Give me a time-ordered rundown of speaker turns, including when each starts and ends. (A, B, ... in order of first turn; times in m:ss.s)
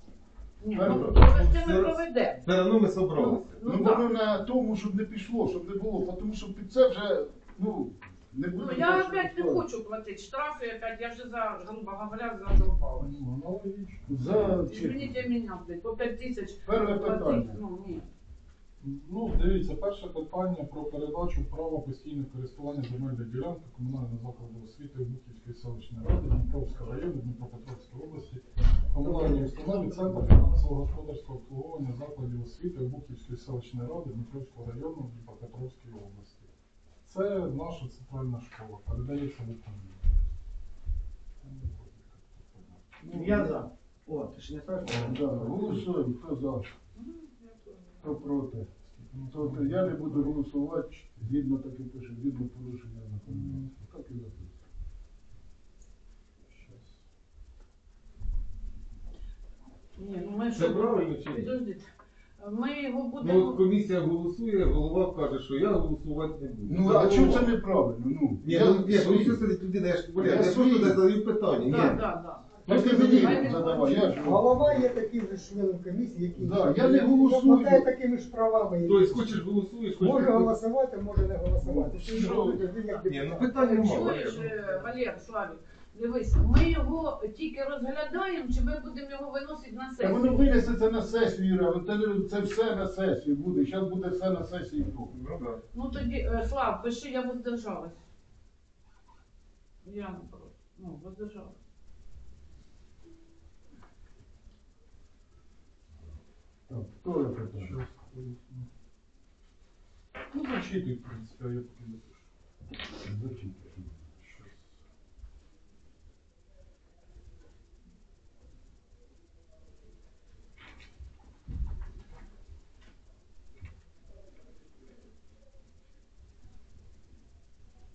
0:00.6-0:02.5 A
0:00.8-0:01.1 B
0:00.8-0:03.6 C
0:03.1-0:04.1 A
0:03.6-0:09.6 B
0:08.5-0:13.2 A
0:13.0-0:14.2 D
0:14.1-0:15.2 B
0:14.5-0:18.1 A
0:16.7-0:17.6 B
0:18.8-0:36.5 D
0:29.0-0:30.3 B
0:37.0-0:40.1 D
0:41.4-0:42.9 D
0:43.0-0:45.8 E
0:43.1-0:43.5 B
0:44.8-0:46.7 B
0:47.0-0:48.0 A
0:48.0-0:48.7 B
0:49.0-0:50.4 D
0:49.3-0:54.5 B
0:53.3-0:53.7 D
0:56.5-0:56.9 D
1:00.0-1:01.9 A
1:00.5-1:01.6 C
1:02.4-1:03.6 A
1:03.2-1:07.6 C
1:06.7-1:09.4 B
1:08.4-1:12.0 C
1:10.2-1:11.0 B
1:11.6-1:14.1 A
1:12.7-1:14.9 B
1:12.7-1:13.5 C
1:14.0-1:19.4 F
1:16.4-1:17.9 B
1:18.8-1:20.6 C
1:20.0-1:23.8 F
1:21.6-1:22.6 B
1:22.2-1:22.4 C
1:23.1-1:24.5 C
1:23.6-1:30.4 A
1:30.0-1:35.1 B
1:35.1-1:35.6 C
1:35.7-1:38.0 A
1:39.8-1:41.6 A
1:46.7-1:47.8 B
1:47.5-1:48.7 D
1:50.3-1:52.3 D
1:53.0-1:54.0 B
1:54.2-1:54.6 D